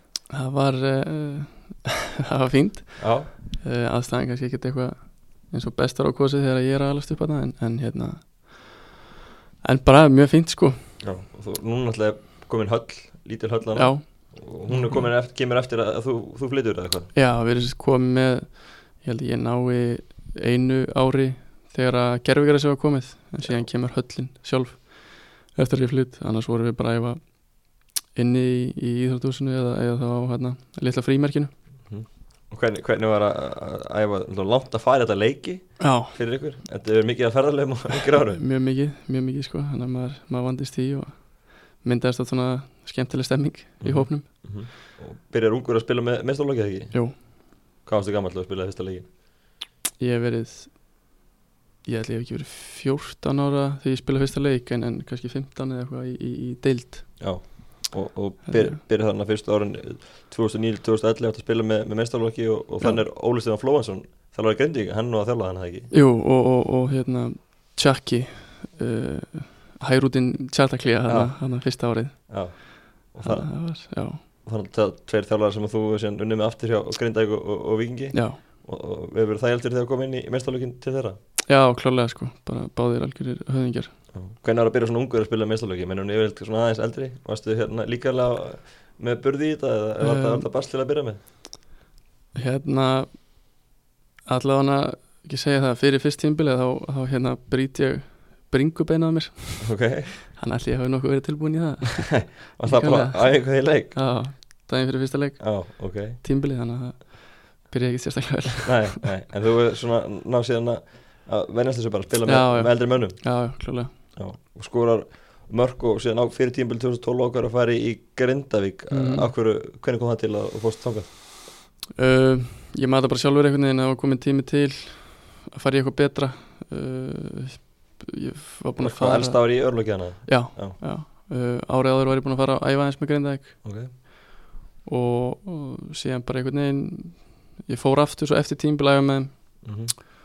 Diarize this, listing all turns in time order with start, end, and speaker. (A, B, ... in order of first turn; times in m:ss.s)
0:00.3-0:09.0 A
0:03.0-0:03.3 B
0:09.6-0:10.9 A
0:11.0-0:17.1 B
0:13.7-0:15.1 A
0:17.1-0:31.5 A
0:23.4-0:23.7 B
0:31.9-0:38.4 B
0:35.8-0:36.2 A
0:38.3-0:44.6 A
0:43.8-0:49.1 B
0:46.9-0:47.3 A
0:50.0-0:51.1 A
0:51.8-0:57.5 A
0:57.2-1:05.9 B
0:58.5-0:58.8 A
1:05.9-1:14.2 A
1:11.1-1:21.2 B
1:18.1-1:18.4 A
1:21.5-1:24.0 A
1:24.1-1:31.2 B
1:30.0-1:30.5 A
1:32.4-1:33.6 A
1:34.3-1:49.0 A
1:39.6-1:40.1 B
1:42.3-1:44.1 B
1:45.4-1:46.2 B
1:48.6-2:01.1 B
1:52.2-1:54.0 A
1:58.9-1:59.3 A
2:02.0-2:14.0 A
2:08.8-2:10.8 B
2:13.6-2:13.9 B
2:14.8-2:19.9 A
2:19.6-2:19.9 B